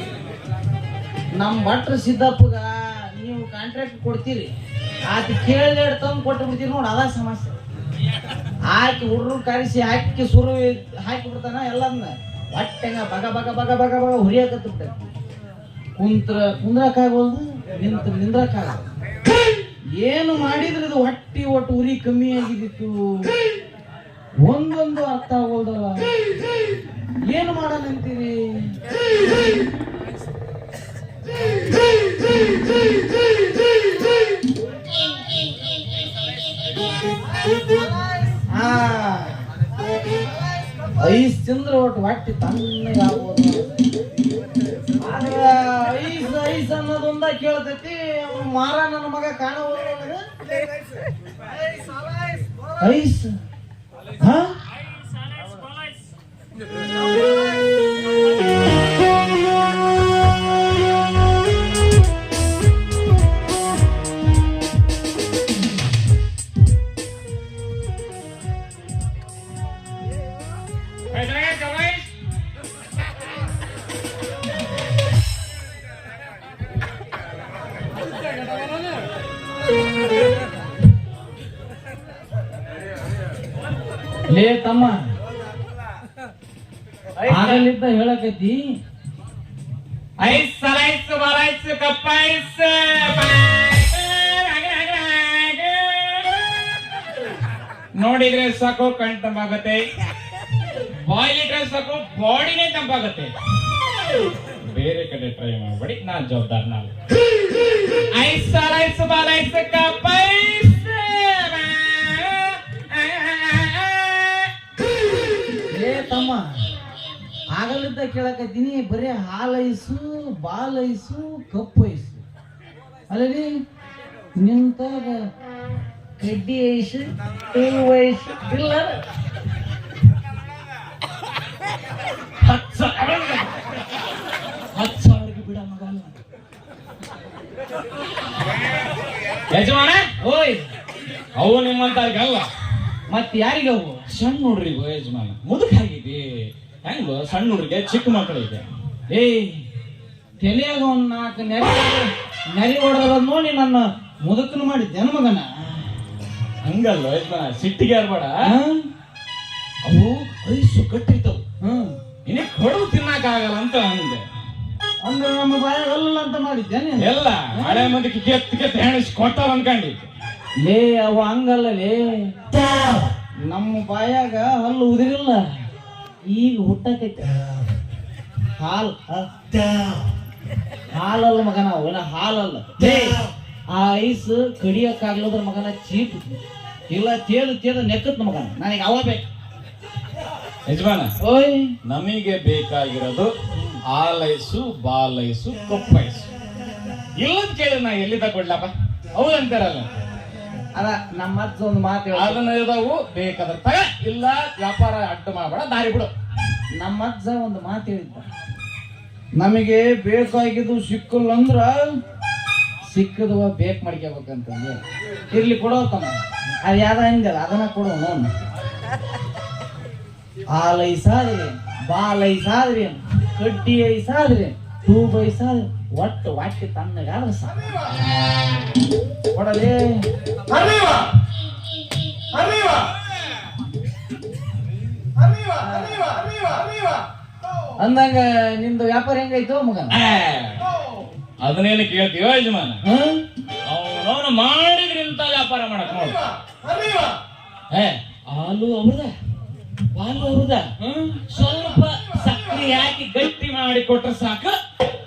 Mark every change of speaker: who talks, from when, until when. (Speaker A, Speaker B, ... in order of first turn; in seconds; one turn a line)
Speaker A: 1.4-4.5
Speaker A: 5.1-7.5
Speaker A: 8.7-15.1
Speaker A: 16.0-18.9
Speaker A: 20.0-23.3
Speaker A: 24.4-26.1
Speaker A: 27.3-28.7
Speaker A: 38.3-39.4
Speaker A: 41.0-43.7
Speaker A: 45.0-50.2
Speaker A: 52.8-53.3
Speaker A: 54.2-54.5
Speaker B: 71.1-72.1
Speaker A: 84.3-85.0
Speaker B: 87.2-87.7
Speaker A: 87.3-88.6
Speaker B: 90.2-96.5
Speaker B: 98.0-99.8
Speaker B: 100.9-103.3
Speaker B: 104.6-106.9
Speaker B: 108.1-114.5
Speaker A: 115.7-116.4
Speaker A: 117.5-122.2
Speaker A: 123.1-123.5
Speaker A: 124.4-125.2
Speaker A: 126.2-128.9
Speaker B: 132.4-133.6
Speaker B: 134.8-136.2
Speaker B: 139.5-140.1
Speaker A: 140.2-140.6
Speaker B: 141.4-142.5
Speaker A: 143.1-144.0
Speaker B: 144.1-148.7
Speaker A: 149.1-149.6
Speaker A: 150.4-155.5
Speaker B: 156.6-158.3
Speaker A: 158.4-158.8
Speaker B: 159.8-161.4
Speaker A: 161.6-161.9
Speaker B: 162.3-164.2
Speaker A: 165.0-167.9
Speaker B: 167.0-170.1
Speaker A: 170.6-172.3
Speaker A: 173.5-175.4
Speaker A: 176.3-177.3
Speaker A: 178.6-179.3
Speaker A: 180.9-183.2
Speaker A: 183.7-186.3
Speaker A: 186.9-189.2
Speaker B: 190.7-191.2
Speaker A: 191.2-191.8
Speaker B: 191.8-193.3
Speaker A: 193.6-193.8
Speaker B: 193.9-196.3
Speaker B: 197.2-200.0
Speaker A: 200.8-202.4
Speaker B: 202.1-206.1
Speaker A: 206.8-208.3
Speaker A: 209.4-211.9
Speaker A: 212.9-214.8
Speaker A: 215.3-218.3
Speaker A: 220.5-227.6
Speaker A: 229.3-229.9
Speaker A: 235.6-236.0
Speaker A: 237.8-240.0
Speaker B: 239.9-240.6
Speaker B: 241.4-242.8
Speaker A: 242.8-243.2
Speaker B: 243.7-246.2
Speaker B: 247.7-249.1
Speaker B: 249.9-250.7
Speaker A: 250.8-251.2
Speaker B: 251.3-254.6